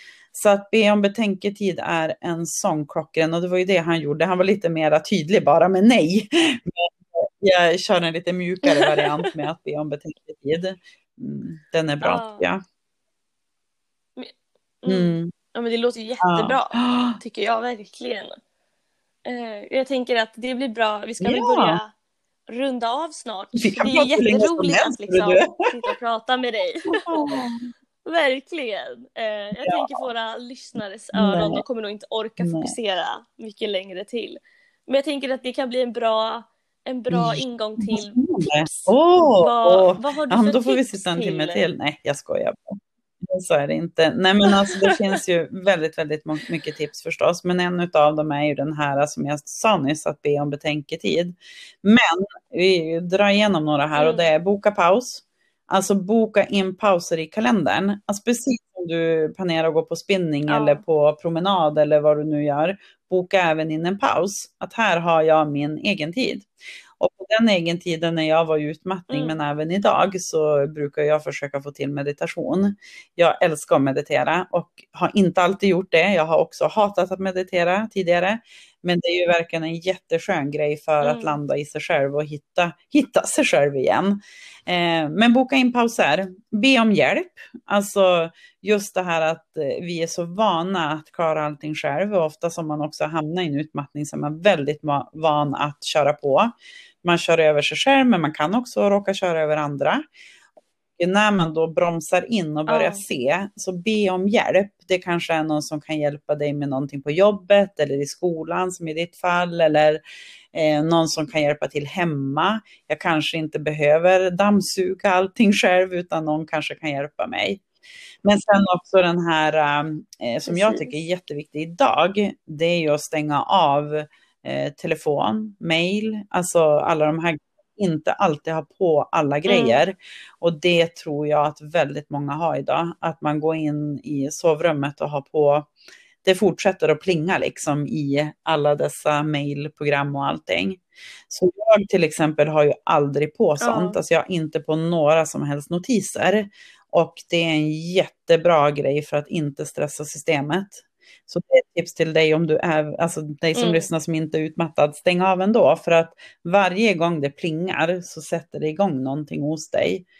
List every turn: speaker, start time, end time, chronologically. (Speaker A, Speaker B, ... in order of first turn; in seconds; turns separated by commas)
Speaker A: 0.3-12.6, Speaker B: 8.7-9.3, Speaker B: 12.0-12.4, Speaker B: 14.8-18.3, Speaker A: 14.9-15.3, Speaker A: 16.2-17.2, Speaker B: 19.2-21.9, Speaker A: 21.2-21.8, Speaker B: 22.5-27.3, Speaker A: 23.6-25.7, Speaker A: 26.9-27.7, Speaker B: 28.1-41.7, Speaker A: 29.6-30.1, Speaker A: 31.2-31.6, Speaker A: 32.4-32.8, Speaker A: 37.1-100.1, Speaker B: 44.7-45.1, Speaker B: 54.0-54.3, Speaker B: 60.5-60.8, Speaker B: 69.1-69.3, Speaker B: 81.0-81.4, Speaker A: 101.0-110.0, Speaker B: 102.7-103.0, Speaker A: 110.5-117.6, Speaker A: 118.2-135.7, Speaker B: 120.5-121.0, Speaker B: 129.5-129.8, Speaker A: 136.2-160.1, Speaker B: 143.6-144.0, Speaker B: 153.6-153.9